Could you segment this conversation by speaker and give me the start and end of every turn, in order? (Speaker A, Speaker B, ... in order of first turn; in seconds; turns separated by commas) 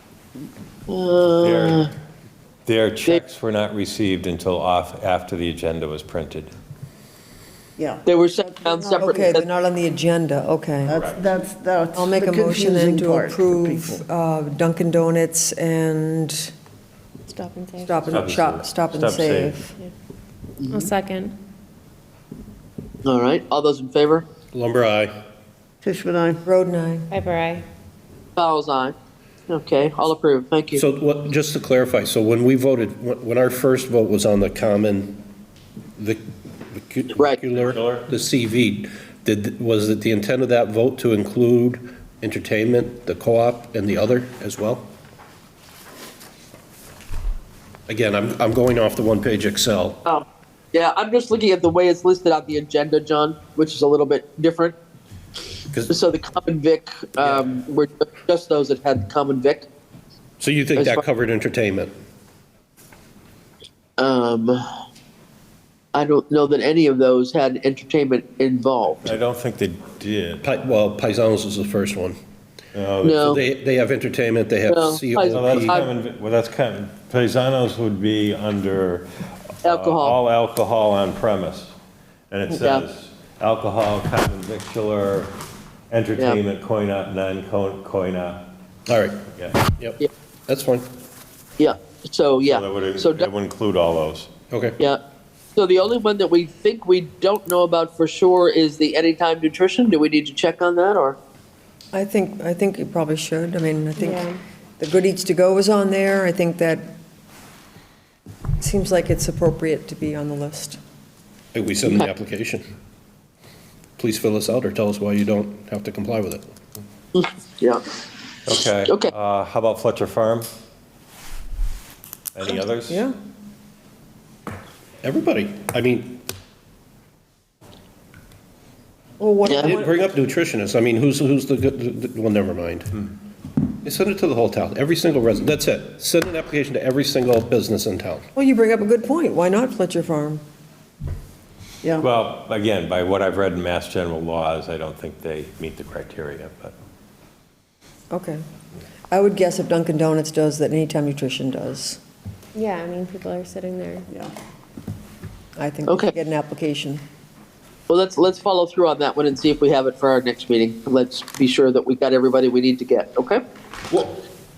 Speaker A: 0.9-1.9, Speaker B: 1.4-1.9, Speaker B: 2.6-6.5, Speaker C: 7.8-8.0, Speaker A: 8.0-9.4, Speaker C: 8.6-9.1, Speaker D: 8.9-11.1, Speaker C: 10.8-14.0, Speaker B: 10.9-11.3, Speaker D: 11.9-16.5, Speaker E: 17.3-18.1, Speaker D: 17.8-19.7, Speaker B: 18.1-19.6, Speaker A: 20.6-20.9, Speaker E: 20.7-21.3, Speaker A: 23.0-24.2, Speaker F: 24.5-25.1, Speaker C: 25.8-26.4, Speaker D: 26.4-27.1, Speaker E: 27.1-27.6, Speaker A: 28.4-28.9, Speaker A: 29.5-30.8, Speaker F: 30.7-35.2, Speaker F: 36.0-44.9, Speaker A: 37.2-37.4, Speaker B: 37.6-38.0, Speaker F: 47.9-50.0, Speaker A: 50.0-54.8, Speaker F: 55.7-56.0, Speaker A: 55.9-59.7, Speaker F: 57.2-57.6, Speaker F: 60.4-61.9, Speaker A: 60.8-61.0, Speaker A: 64.0-64.6, Speaker A: 65.9-69.1, Speaker B: 69.0-70.4, Speaker F: 70.4-72.2, Speaker B: 72.7-73.4, Speaker A: 73.0-73.4, Speaker F: 73.2-75.8, Speaker A: 74.7-75.9, Speaker B: 75.3-81.7, Speaker A: 79.6-80.2, Speaker B: 82.3-85.3, Speaker A: 82.5-82.8, Speaker B: 85.9-88.5, Speaker F: 88.9-90.9, Speaker B: 89.3-89.7, Speaker A: 91.6-93.3, Speaker B: 92.4-94.3, Speaker F: 94.5-94.8, Speaker A: 95.5-101.2, Speaker D: 101.9-104.2, Speaker E: 104.0-104.4, Speaker D: 104.8-106.9, Speaker D: 108.6-110.8, Speaker F: 111.5-112.6, Speaker A: 111.8-112.1, Speaker F: 114.0-116.5, Speaker A: 117.1-117.8, Speaker B: 118.5-120.5, Speaker A: 118.8-119.1, Speaker B: 122.3-123.1, Speaker D: 122.9-123.1, Speaker F: 125.0-126.2, Speaker D: 129.2-130.1, Speaker A: 129.5-129.7, Speaker F: 129.5-132.9, Speaker F: 133.8-138.2, Speaker D: 138.3-140.4, Speaker B: 142.0-146.7, Speaker D: 148.1-148.4, Speaker D: 149.1-152.0, Speaker E: 152.5-154.1, Speaker D: 155.6-157.0, Speaker A: 155.9-156.1, Speaker A: 157.9-163.4, Speaker F: 163.9-164.2